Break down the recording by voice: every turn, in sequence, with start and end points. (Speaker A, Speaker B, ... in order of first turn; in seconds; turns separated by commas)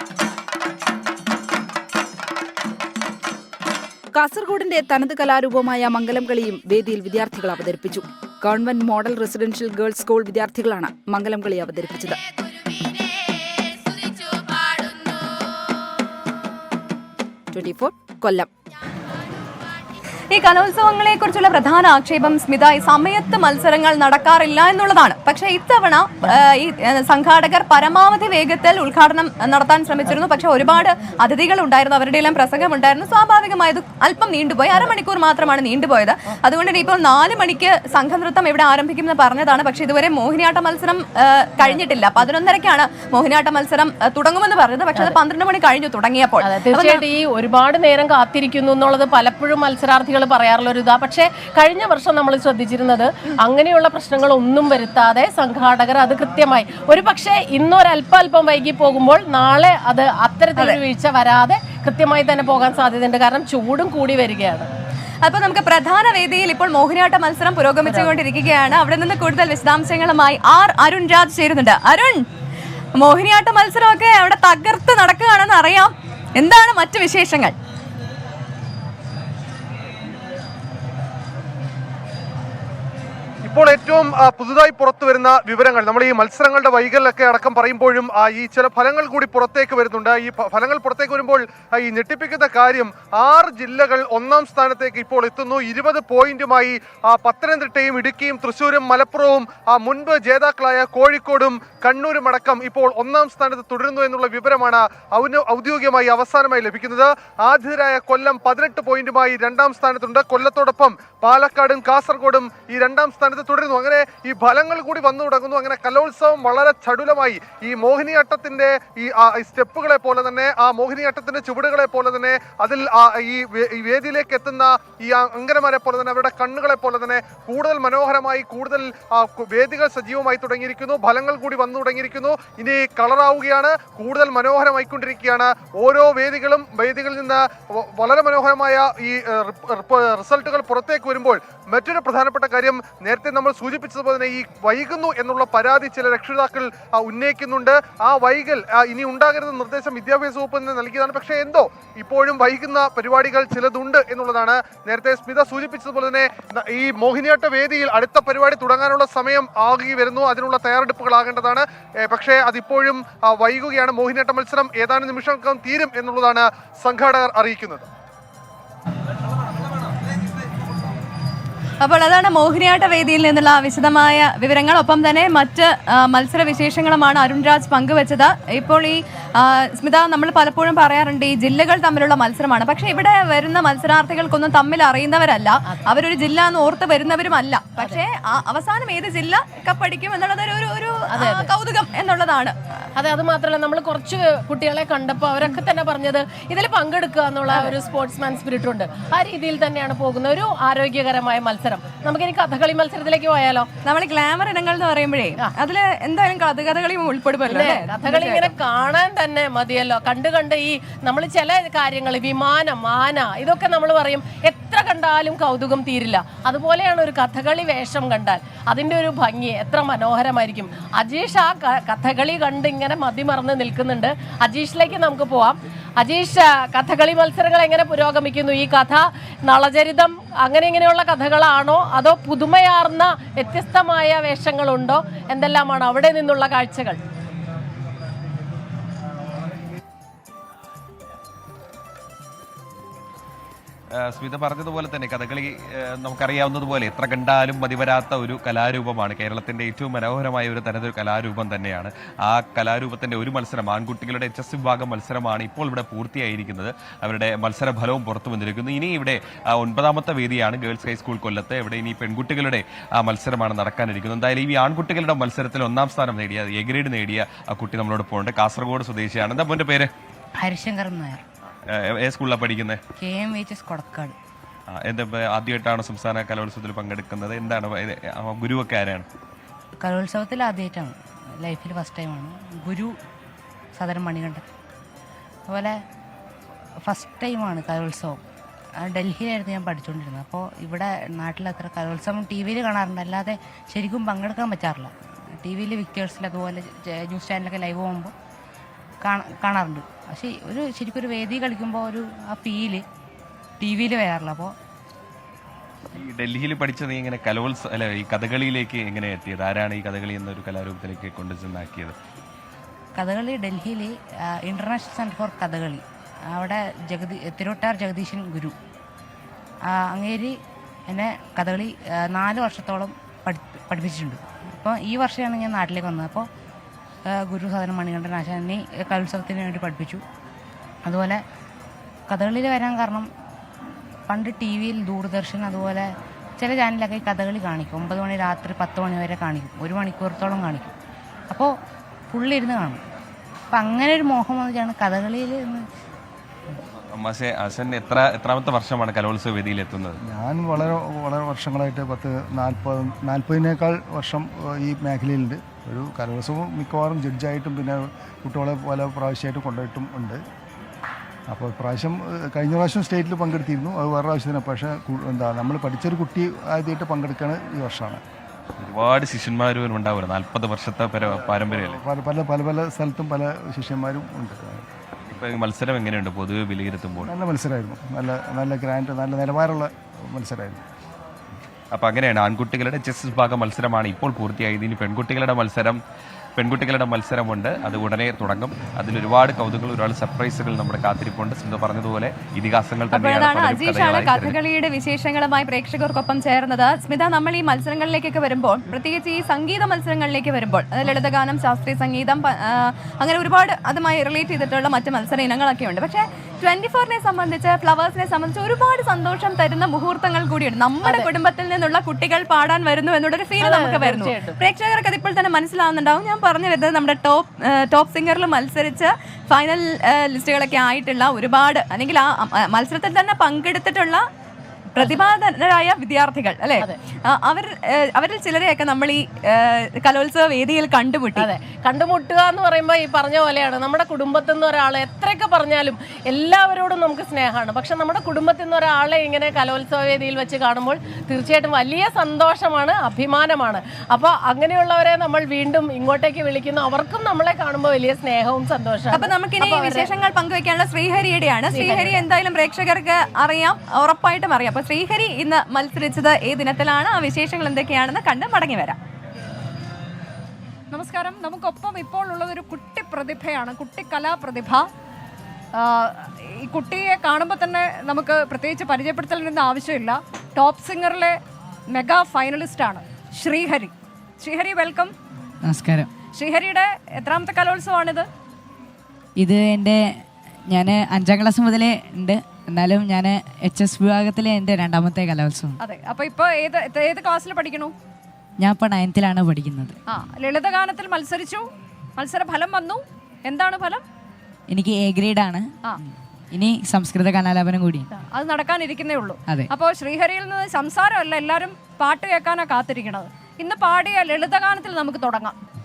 Speaker A: 4.1-12.2, Speaker A: 17.5-18.5, Speaker B: 20.3-47.0, Speaker C: 46.4-64.7, Speaker B: 65.2-72.3, Speaker C: 67.8-68.1, Speaker B: 73.0-77.5, Speaker D: 83.4-167.9, Speaker B: 171.8-192.6, Speaker C: 191.1-191.5, Speaker C: 193.0-203.7, Speaker B: 203.8-208.5, Speaker C: 207.5-237.0, Speaker E: 244.0-269.9, Speaker F: 270.4-271.2, Speaker E: 271.7-272.8, Speaker F: 273.0-274.1, Speaker E: 274.7-279.1, Speaker F: 279.8-282.9, Speaker F: 283.7-284.4, Speaker F: 285.5-285.8, Speaker F: 286.8-288.2, Speaker F: 288.8-298.1, Speaker F: 299.0-302.8, Speaker F: 303.6-304.5, Speaker E: 305.9-311.9, Speaker F: 312.9-318.5, Speaker F: 319.7-320.4, Speaker F: 320.9-326.3, Speaker F: 327.1-330.0, Speaker F: 330.9-331.2, Speaker F: 332.1-333.1, Speaker F: 334.1-340.7, Speaker F: 342.1-342.8, Speaker F: 343.5-345.6, Speaker E: 346.9-350.0, Speaker G: 350.0-360.2, Speaker G: 361.3-368.0, Speaker E: 368.6-371.8, Speaker G: 371.0-374.6, Speaker E: 375.1-377.1, Speaker G: 377.1-380.6, Speaker E: 381.7-385.8, Speaker E: 386.4-394.4, Speaker B: 392.9-424.0, Speaker C: 413.4-414.4, Speaker B: 424.7-431.3, Speaker C: 431.1-449.9, Speaker B: 448.9-458.8, Speaker C: 451.5-452.0, Speaker H: 460.7-464.7, Speaker H: 465.6-471.2, Speaker H: 471.7-474.9, Speaker I: 475.4-475.9, Speaker H: 476.1-478.1, Speaker I: 479.2-479.8, Speaker I: 480.5-485.6, Speaker H: 485.6-487.7, Speaker I: 488.4-489.8, Speaker H: 489.9-493.8, Speaker I: 494.5-495.5, Speaker I: 496.3-497.9, Speaker H: 497.9-505.4